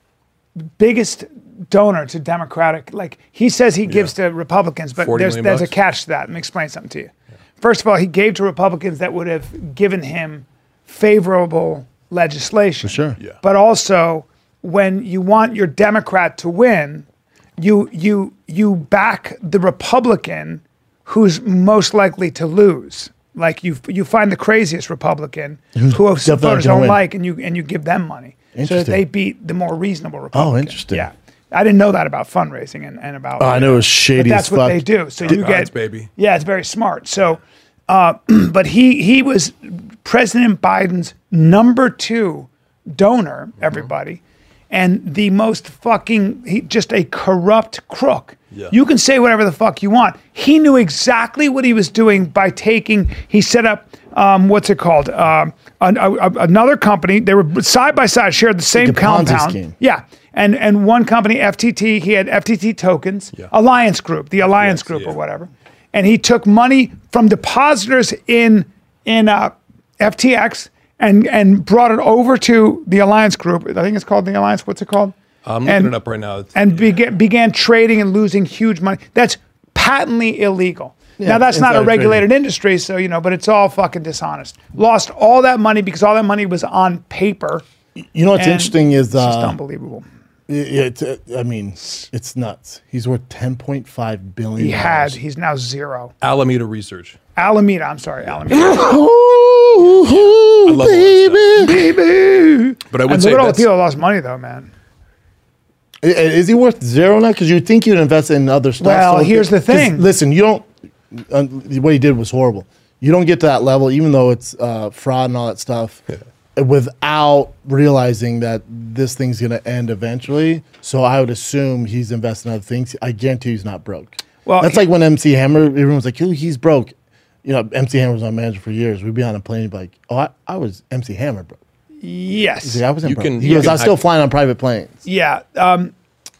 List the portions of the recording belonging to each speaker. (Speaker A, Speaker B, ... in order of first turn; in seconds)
Speaker A: 0.7-17.1, 17.6-76.0, 76.5-87.6, 88.3-90.0, 94.6-96.1, 97.3-99.0, 101.5-104.7, 108.8-110.1, 124.5-124.9, 132.0-132.8, 133.4-133.8, 135.0-135.9
Speaker B: 3.9-4.1, 5.0-5.7, 35.2-36.1, 64.5-65.2, 75.4-76.9, 96.2-97.2, 100.0-101.6, 102.9-103.7, 133.0-134.0
Speaker C: 12.8-13.2, 25.7-27.0, 28.5-29.0, 30.3-31.1, 33.4-34.9, 58.7-59.7, 81.2-82.2, 88.0-89.6, 90.5-95.2, 98.5-101.9, 106.0-116.0, 116.5-126.9, 127.4-131.6, 132.6-135.0